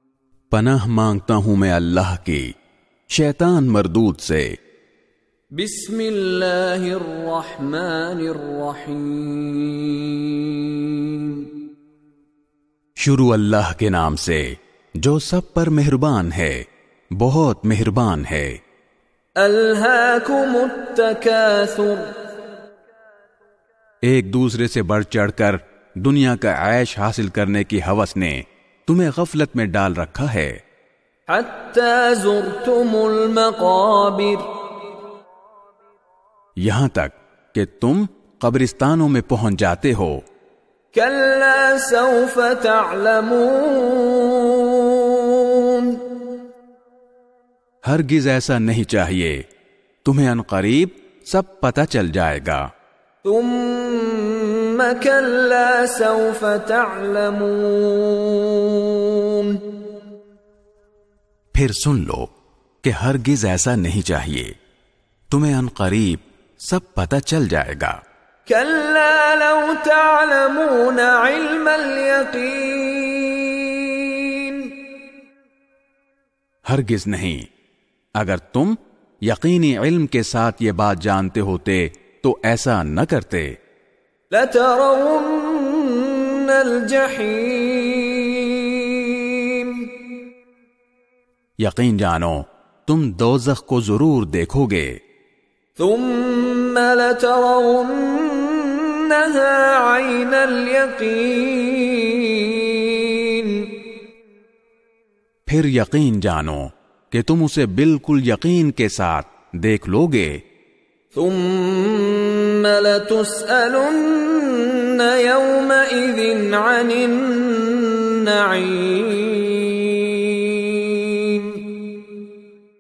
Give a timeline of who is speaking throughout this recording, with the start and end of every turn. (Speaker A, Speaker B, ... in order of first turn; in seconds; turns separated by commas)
Speaker A: 0.5-2.5, Speaker A: 3.1-4.6, Speaker B: 5.6-11.5, Speaker A: 13.0-16.6, Speaker A: 17.2-18.6, Speaker B: 19.4-22.1, Speaker A: 24.1-30.6, Speaker B: 31.3-34.5, Speaker A: 36.6-40.2, Speaker B: 40.9-46.0, Speaker A: 47.9-49.4, Speaker A: 50.0-52.7, Speaker B: 53.2-59.6, Speaker A: 61.5-62.3, Speaker A: 62.8-64.5, Speaker A: 65.3-68.0, Speaker B: 68.5-74.7, Speaker A: 76.7-77.5, Speaker A: 78.2-83.5, Speaker B: 84.3-89.9, Speaker A: 91.6-95.0, Speaker B: 95.8-103.7, Speaker A: 105.5-110.4, Speaker B: 111.1-121.7